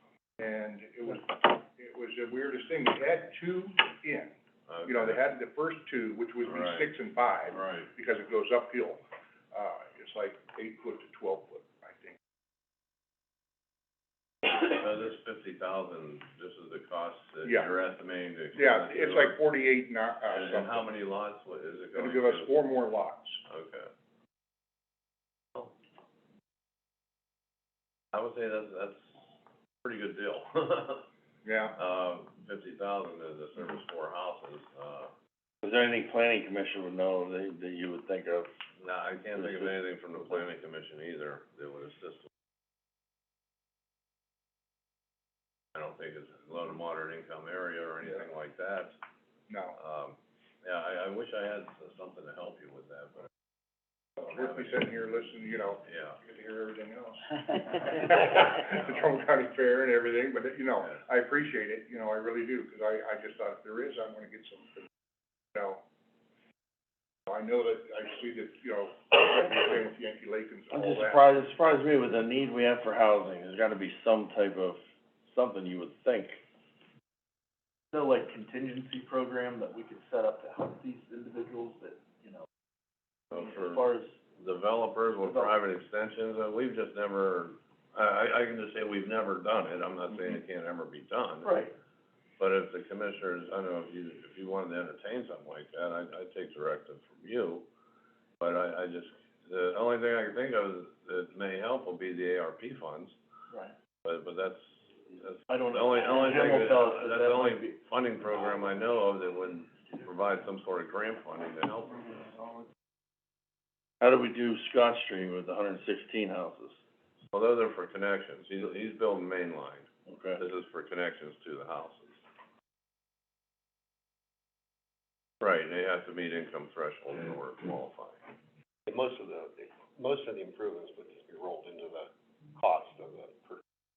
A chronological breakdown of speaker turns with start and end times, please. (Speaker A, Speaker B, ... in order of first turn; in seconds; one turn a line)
Speaker A: 0.4-4.3
Speaker B: 4.7-5.2
Speaker A: 4.8-12.2
Speaker B: 6.5-6.9
Speaker B: 7.5-7.9
Speaker B: 14.5-19.4
Speaker A: 18.5-20.9
Speaker B: 20.3-22.5
Speaker A: 21.9-23.4
Speaker B: 23.5-23.9
Speaker B: 28.1-29.2
Speaker B: 29.8-31.1
Speaker A: 31.4-31.8
Speaker B: 31.8-35.1
Speaker C: 35.6-38.5
Speaker B: 38.8-42.3
Speaker B: 45.8-49.0
Speaker A: 49.5-49.8
Speaker B: 49.8-53.3
Speaker A: 54.2-64.9
Speaker B: 54.2-54.8
Speaker B: 55.8-56.2
Speaker A: 65.5-65.8
Speaker A: 67.3-71.3
Speaker C: 70.7-76.4
Speaker D: 77.9-82.5
Speaker B: 83.3-91.5
Speaker D: 83.3-84.1
Speaker D: 91.4-91.7
Speaker B: 92.4-97.6
Speaker B: 98.4-103.1
Speaker B: 104.0-112.3
Speaker D: 105.5-107.7
Speaker C: 114.0-116.8
Speaker B: 117.3-122.2
Speaker C: 120.1-120.4
Speaker B: 125.4-128.2
Speaker E: 128.9-133.6